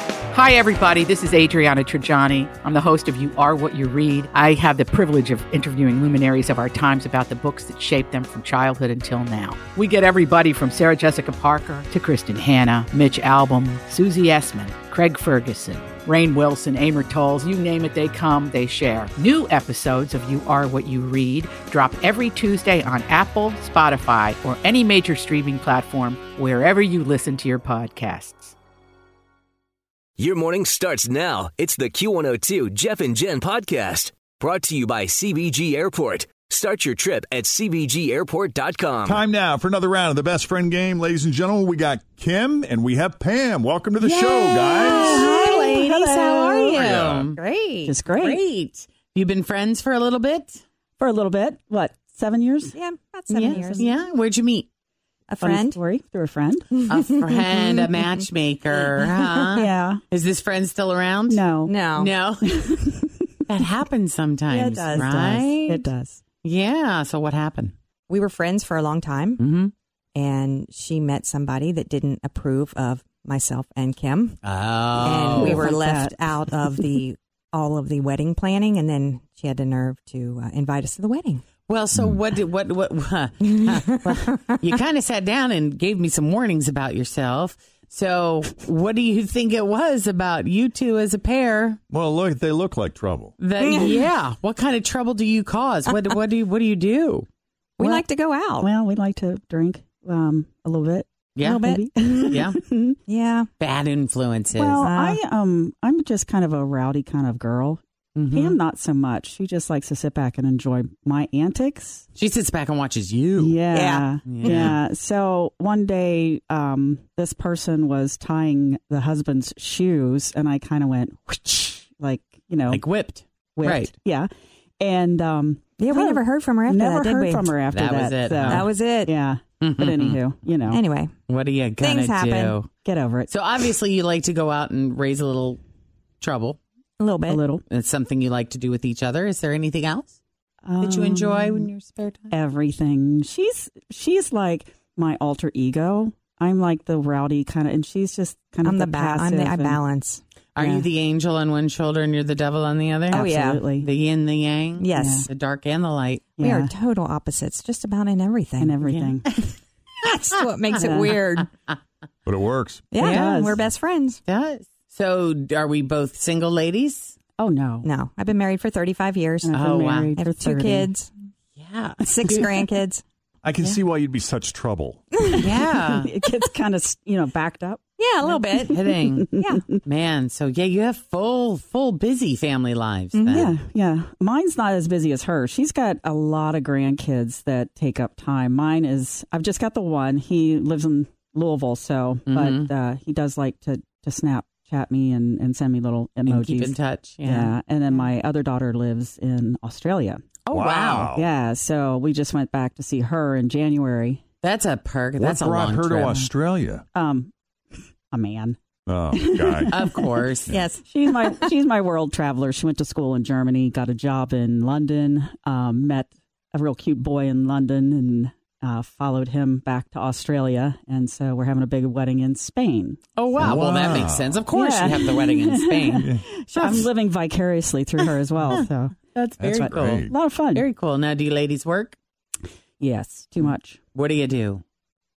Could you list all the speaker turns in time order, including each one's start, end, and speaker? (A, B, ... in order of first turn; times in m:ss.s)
0:00.3-0:28.5 A
0:30.2-0:39.2 B
0:39.0-0:45.3 C
0:44.0-0:47.4 D
0:44.6-0:47.9 E
0:46.8-0:47.2 C
0:47.8-0:48.4 F
0:48.0-0:50.6 D
0:51.0-0:52.8 F
0:52.7-0:53.9 E
0:53.3-0:54.7 D
0:53.4-0:53.9 F
0:55.3-0:55.8 E
0:55.4-0:56.7 F
0:56.7-0:57.0 E
0:56.9-1:02.7 D
0:57.5-0:57.9 E
0:59.5-1:00.0 F
1:01.3-1:01.8 F
1:01.6-1:02.1 E
1:02.5-1:03.2 F
1:03.5-1:05.9 D
1:04.5-1:05.5 E
1:04.9-1:06.2 F
1:06.4-1:07.7 D
1:08.1-1:09.4 E
1:09.4-1:09.7 D
1:10.1-1:14.4 E
1:14.4-1:15.7 D
1:14.9-1:21.4 E
1:15.0-1:16.8 F
1:21.7-1:31.8 D
1:31.9-1:33.3 C
1:33.4-1:37.2 D
1:33.6-1:34.0 E
1:37.8-1:38.7 E
1:37.8-1:38.0 F
1:38.6-1:43.0 F
1:41.4-1:42.6 D
1:41.4-1:41.9 E
1:43.1-1:43.5 E
1:43.6-1:44.8 D
1:44.5-1:52.0 F
1:44.8-1:45.2 E
1:48.2-1:48.6 D
1:52.1-1:53.6 D
1:53.4-2:02.8 F
1:53.7-1:54.8 E
1:54.3-1:54.8 D
2:02.7-2:03.9 D
2:03.6-2:04.3 F
2:04.8-2:10.8 F
2:05.8-2:07.5 E
2:07.7-2:08.7 D
2:08.5-2:09.1 E
2:09.6-2:10.2 D
2:10.7-2:11.1 E
2:11.3-2:12.7 D
2:11.8-2:12.6 E
2:12.8-2:13.3 F
2:13.3-2:15.6 D
2:16.2-2:16.6 D
2:17.0-2:17.4 E
2:17.3-2:17.6 F
2:17.7-2:20.1 D
2:20.6-2:21.7 F
2:20.8-2:22.3 D
2:22.3-2:29.8 F
2:28.6-2:30.2 E
2:30.6-2:36.3 D
2:30.6-2:30.8 F
2:33.1-2:33.9 F
2:33.1-2:33.6 E
2:34.8-2:35.3 E
2:34.9-2:35.2 F
2:36.4-2:36.7 F
2:36.4-2:38.8 E
2:38.6-2:39.4 F
2:38.9-2:39.5 D
2:40.0-2:41.5 E
2:40.7-2:41.1 F
2:42.2-2:42.8 C
2:42.9-2:44.2 E
2:43.0-2:43.7 F
2:43.0-2:43.4 D
2:44.3-2:47.2 D
2:47.4-2:47.9 F
2:47.8-2:49.5 E
2:49.4-2:50.9 F
2:49.5-2:50.1 D
2:50.1-2:51.1 E
2:51.6-2:52.7 D
2:52.0-2:53.0 E
2:53.4-2:55.0 C
2:55.4-2:56.1 D
2:55.8-2:57.8 F
2:58.0-2:58.8 E
2:58.2-2:59.3 D
2:58.7-2:59.8 F
2:59.4-2:59.6 E
2:59.8-3:03.5 D
3:03.1-3:03.5 E
3:03.3-3:20.2 F
3:12.3-3:12.7 D
3:16.2-3:17.5 D
3:20.5-3:21.1 D
3:20.5-3:21.2 C
3:21.1-3:24.2 F
3:24.4-3:26.3 D
3:25.2-3:26.8 C
3:26.9-3:27.3 F
3:28.1-3:28.6 F
3:28.8-3:29.7 C
3:29.1-3:30.0 F
3:29.7-3:30.6 D
3:30.5-3:31.5 E
3:30.8-3:43.0 F
3:43.2-3:46.9 D
3:43.4-3:44.4 C
3:44.5-3:49.0 F
3:48.5-3:52.0 D
3:49.4-3:50.1 C
3:49.5-3:50.6 F
3:52.8-3:53.8 F
3:53.4-3:54.6 D